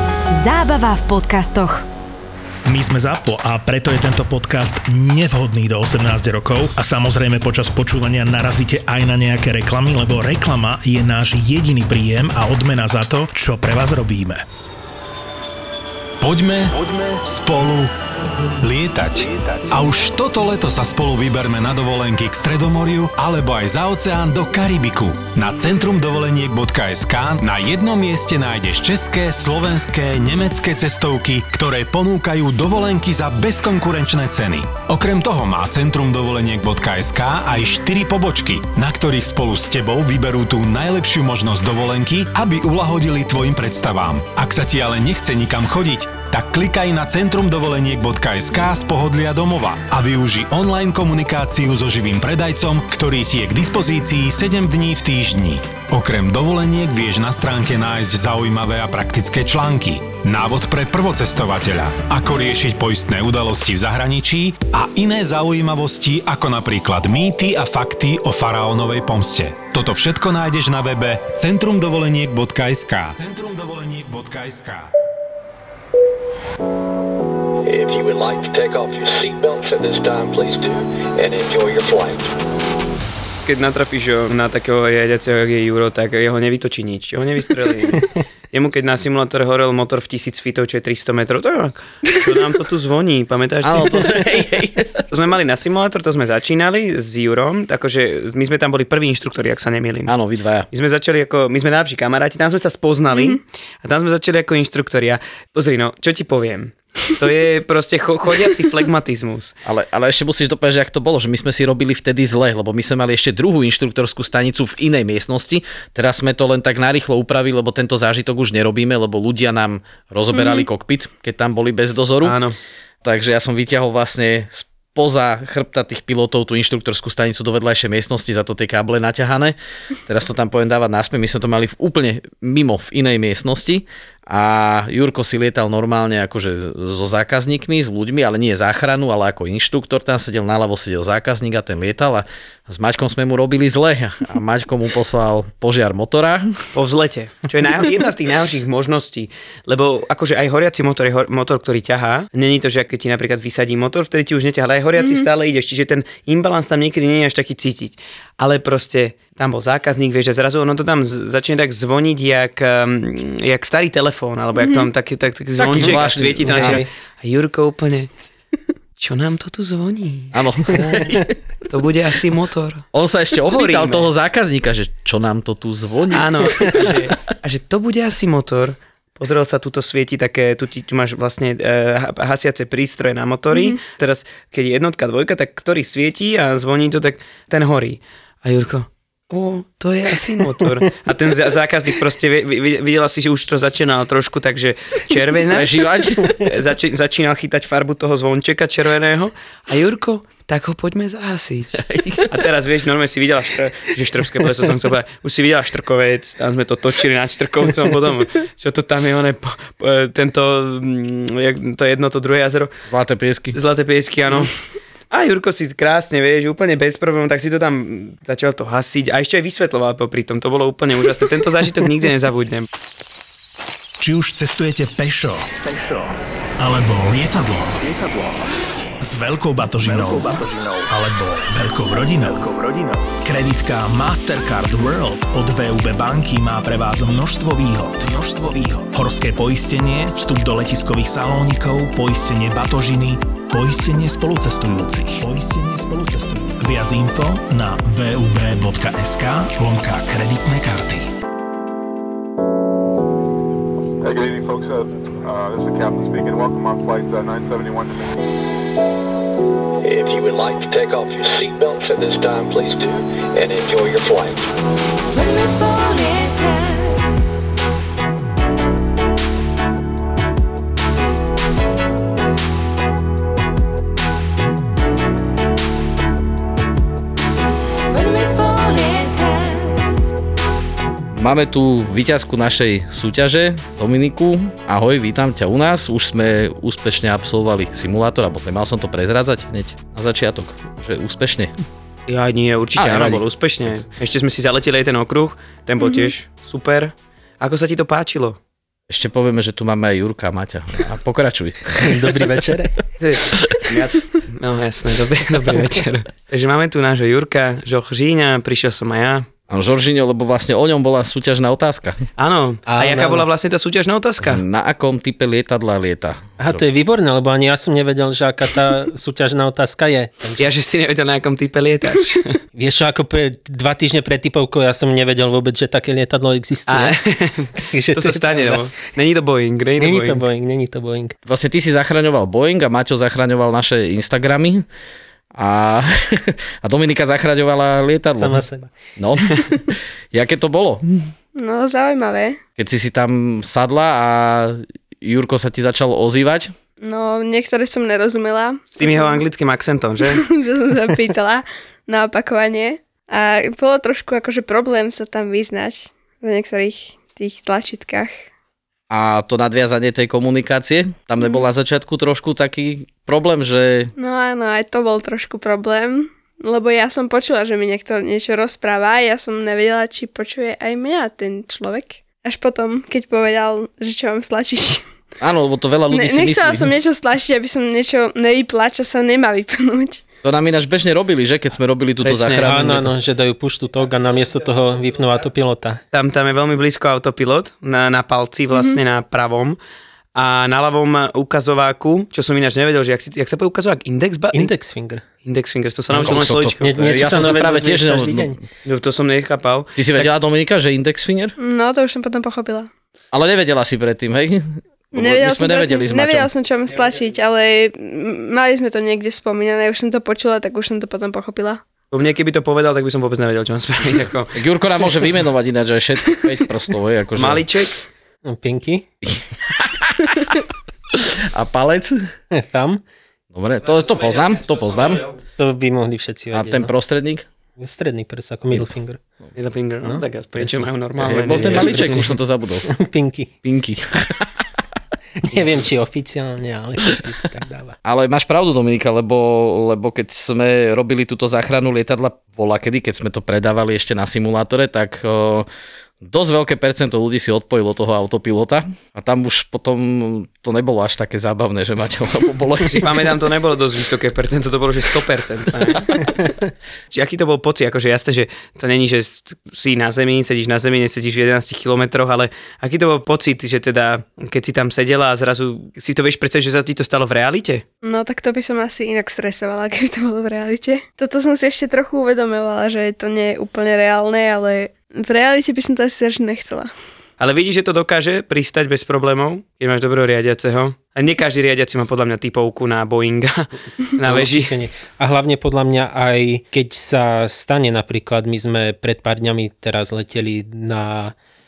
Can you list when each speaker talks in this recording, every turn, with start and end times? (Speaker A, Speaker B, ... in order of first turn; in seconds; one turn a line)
Speaker A: 0.3-1.8
Speaker B: 2.7-14.4
Speaker C: 16.2-17.9
Speaker C: 18.6-74.9
Speaker D: 77.7-82.3
Speaker E: 83.5-94.2
Speaker F: 93.6-95.0
Speaker E: 95.1-100.1
Speaker F: 100.1-100.7
Speaker E: 100.7-109.5
Speaker G: 103.1-103.4
Speaker F: 109.6-122.4
Speaker G: 120.3-120.7
Speaker E: 122.2-122.5
Speaker F: 123.0-146.6
Speaker E: 146.7-168.1
Speaker G: 155.0-155.2
Speaker G: 164.6-164.9
Speaker F: 165.6-166.8
Speaker H: 165.8-166.9
Speaker E: 169.0-170.9
Speaker F: 170.3-171.3
Speaker E: 171.7-172.8
Speaker F: 172.9-176.9
Speaker E: 173.4-174.1
Speaker E: 176.1-212.7
Speaker G: 183.5-183.8
Speaker F: 195.5-196.4
Speaker F: 201.7-202.3
Speaker F: 212.9-213.6
Speaker E: 213.5-214.5
Speaker E: 215.1-222.7
Speaker B: 224.0-225.5
Speaker B: 226.6-227.9
Speaker B: 229.0-232.5
Speaker B: 233.2-251.1
Speaker I: 254.0-258.2
Speaker D: 259.8-264.5
Speaker A: 265.1-267.3
Speaker A: 277.9-279.9
Speaker F: 281.1-291.5
Speaker E: 292.1-298.4
Speaker F: 292.8-293.8
Speaker G: 295.8-296.1
Speaker F: 298.9-302.2
Speaker H: 301.8-302.7
Speaker E: 303.0-309.3
Speaker F: 309.5-312.0
Speaker E: 312.2-314.4
Speaker H: 312.7-313.2
Speaker F: 314.2-316.6
Speaker H: 316.4-320.4
Speaker E: 320.4-322.4
Speaker H: 322.6-326.9
Speaker E: 326.7-330.2
Speaker H: 327.6-328.6
Speaker H: 329.8-331.1
Speaker F: 331.2-334.6
Speaker F: 335.3-338.4
Speaker H: 338.2-338.7
Speaker F: 339.0-339.4
Speaker F: 340.1-341.0
Speaker G: 341.4-342.4
Speaker F: 342.6-346.5
Speaker G: 346.8-349.2
Speaker E: 348.8-350.2
Speaker G: 350.1-358.1
Speaker F: 358.9-363.9
Speaker G: 364.0-374.8
Speaker F: 375.2-376.7
Speaker G: 375.9-380.0
Speaker F: 380.2-382.8
Speaker E: 382.0-382.9
Speaker H: 382.4-385.8
Speaker E: 385.9-389.6
Speaker G: 388.5-388.8
Speaker E: 390.1-394.5
Speaker H: 394.3-395.0
Speaker E: 395.2-397.4
Speaker H: 395.9-398.3
Speaker F: 395.9-398.4
Speaker E: 398.6-400.1
Speaker F: 399.8-401.4
Speaker G: 401.4-402.7
Speaker F: 403.1-406.3
Speaker G: 404.9-411.6
Speaker E: 411.9-414.4
Speaker F: 414.3-417.4
Speaker E: 417.1-417.8
Speaker H: 418.2-418.9
Speaker F: 419.0-420.4
Speaker F: 420.9-422.1
Speaker H: 422.3-422.8
Speaker F: 423.3-425.0
Speaker E: 424.7-425.1
Speaker H: 425.4-426.7
Speaker F: 426.3-427.3
Speaker H: 427.6-429.0
Speaker E: 429.3-432.0
Speaker H: 429.8-430.7
Speaker F: 431.0-432.7
Speaker H: 431.3-432.1
Speaker H: 432.7-433.3
Speaker F: 433.4-434.3
Speaker H: 435.2-437.8
Speaker F: 437.8-445.5
Speaker F: 446.0-453.1
Speaker E: 452.8-456.1
Speaker F: 455.8-456.0
Speaker E: 456.9-467.6
Speaker G: 467.8-476.7
Speaker E: 477.2-484.5
Speaker H: 484.0-491.1